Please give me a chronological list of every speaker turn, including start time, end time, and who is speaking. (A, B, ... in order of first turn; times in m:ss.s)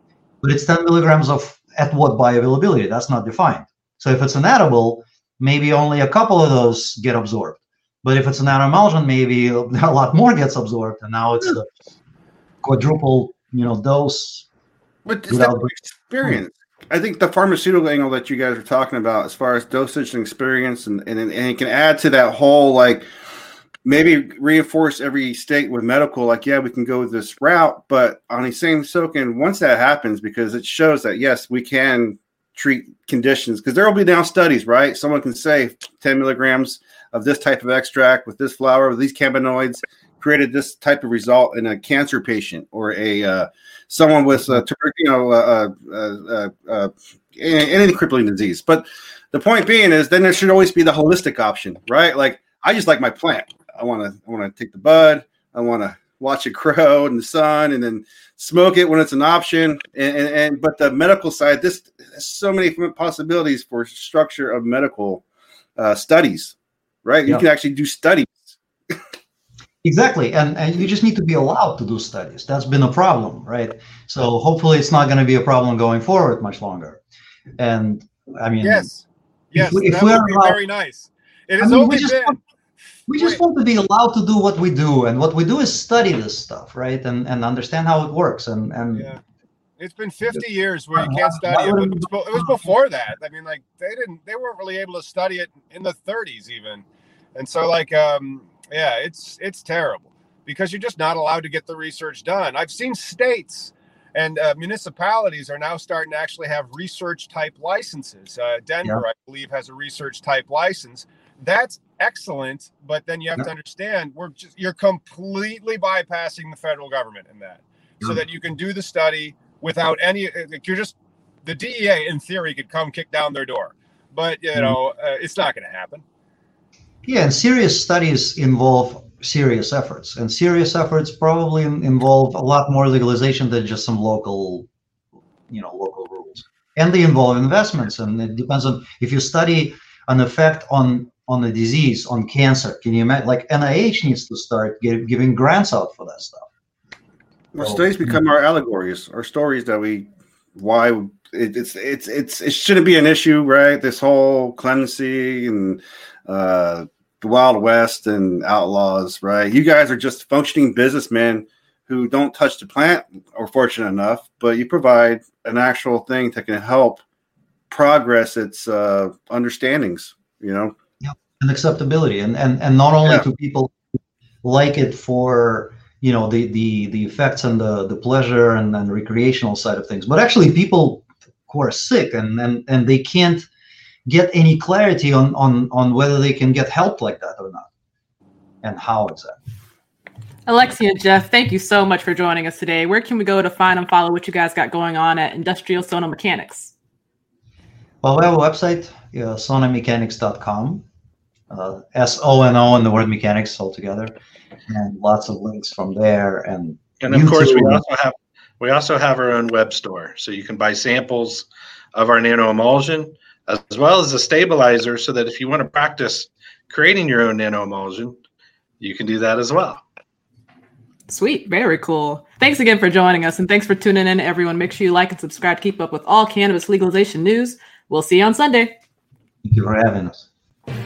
0:00.4-0:11.7 A
0:12.6-0:14.5 A
0:15.1-0:23.1 B
0:15.3-0:16.4 A
0:23.8-1:05.2 B
1:05.8-1:08.6 B
1:09.8-1:17.0 A
1:17.6-1:18.9 A
1:18.6-1:22.4 C
1:19.6-1:20.6 A
1:21.6-1:22.4 A
1:23.1-1:29.1 A
1:23.1-1:23.4 C
1:29.0-1:29.2 C
1:29.8-2:06.0 C
1:31.0-1:32.7 A
2:07.0-2:14.7 A
2:15.5-2:26.5 A
2:27.5-2:47.0 B
2:27.6-2:28.2 A
2:47.7-2:50.7 B
2:51.0-2:53.8 A
2:54.4-3:03.5 A
3:04.1-3:07.7 A
3:08.6-3:09.4 A
3:10.5-3:16.7 D
3:18.0-3:20.8 A
3:21.5-3:24.2 A
3:24.7-3:27.8 A
3:27.0-3:38.2 E
3:38.8-3:39.8 E
3:41.1-3:48.7 D
3:49.4-3:50.3 A